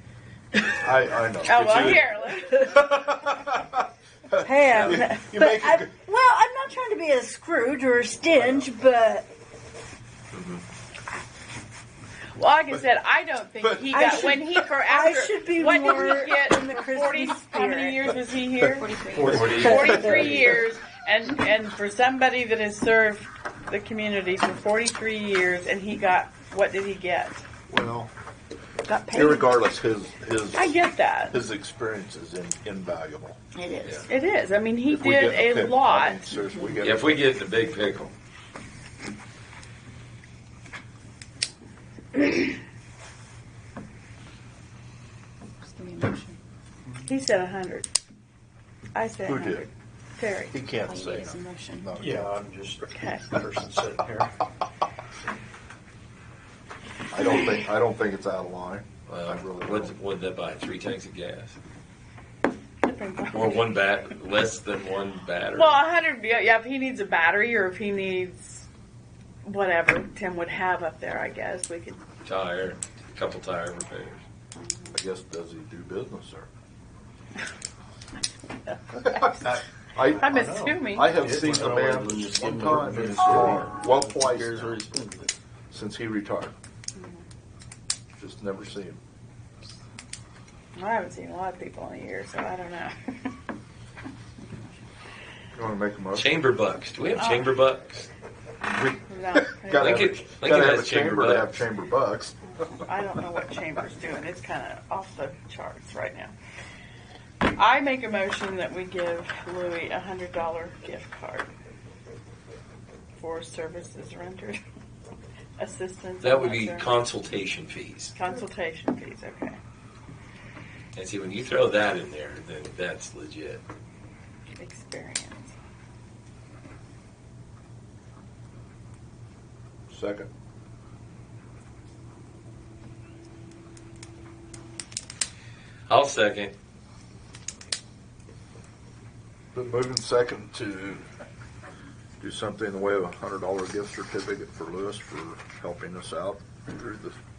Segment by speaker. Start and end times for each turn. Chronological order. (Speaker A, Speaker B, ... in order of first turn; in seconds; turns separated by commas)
Speaker A: 0.8-5.9, Speaker B: 1.4-2.7, Speaker C: 4.4-9.3, Speaker B: 4.7-5.2, Speaker A: 8.3-8.7, Speaker D: 10.3-10.6, Speaker B: 12.4-19.0, Speaker A: 13.6-13.9, Speaker C: 13.9-18.1, Speaker A: 18.6-20.6, Speaker E: 18.8-20.0, Speaker D: 19.3-20.2, Speaker C: 19.3-20.5, Speaker B: 19.5-27.4, Speaker A: 27.7-28.1, Speaker C: 28.9-29.5, Speaker A: 29.1-30.8, Speaker B: 30.5-31.4, Speaker A: 31.3-33.4, Speaker C: 33.5-34.1, Speaker B: 34.1-36.3, Speaker A: 34.9-37.2, Speaker C: 36.5-36.8, Speaker D: 36.8-38.1, Speaker E: 45.6-46.4, Speaker B: 47.1-47.9, Speaker B: 48.9-50.6, Speaker A: 49.2-49.7, Speaker A: 50.5-52.4, Speaker E: 50.7-51.9, Speaker F: 51.9-54.3, Speaker B: 52.9-53.4, Speaker A: 57.1-60.0, Speaker D: 59.1-61.6, Speaker B: 62.8-63.8, Speaker D: 63.3-65.8, Speaker B: 65.5-68.7, Speaker B: 69.5-72.0, Speaker D: 72.2-74.2, Speaker B: 74.6-74.9, Speaker A: 74.9-76.5, Speaker B: 78.7-79.5, Speaker A: 79.0-80.3, Speaker F: 80.1-82.1, Speaker B: 80.2-81.2, Speaker A: 80.9-84.8, Speaker G: 81.2-85.3, Speaker A: 85.7-86.5, Speaker B: 87.0-87.2, Speaker A: 88.2-89.0, Speaker B: 90.8-93.3, Speaker A: 95.5-96.4, Speaker D: 96.1-98.1, Speaker B: 97.2-97.6, Speaker A: 98.7-102.6, Speaker B: 98.9-100.2, Speaker D: 99.8-101.6, Speaker B: 102.8-106.3, Speaker B: 107.4-111.5, Speaker B: 113.2-114.6, Speaker B: 115.6-117.1, Speaker D: 116.2-118.2, Speaker B: 118.2-119.6, Speaker D: 121.0-123.6, Speaker B: 124.6-125.5, Speaker A: 129.9-130.3, Speaker D: 135.9-136.6, Speaker A: 139.6-141.0, Speaker A: 142.2-147.2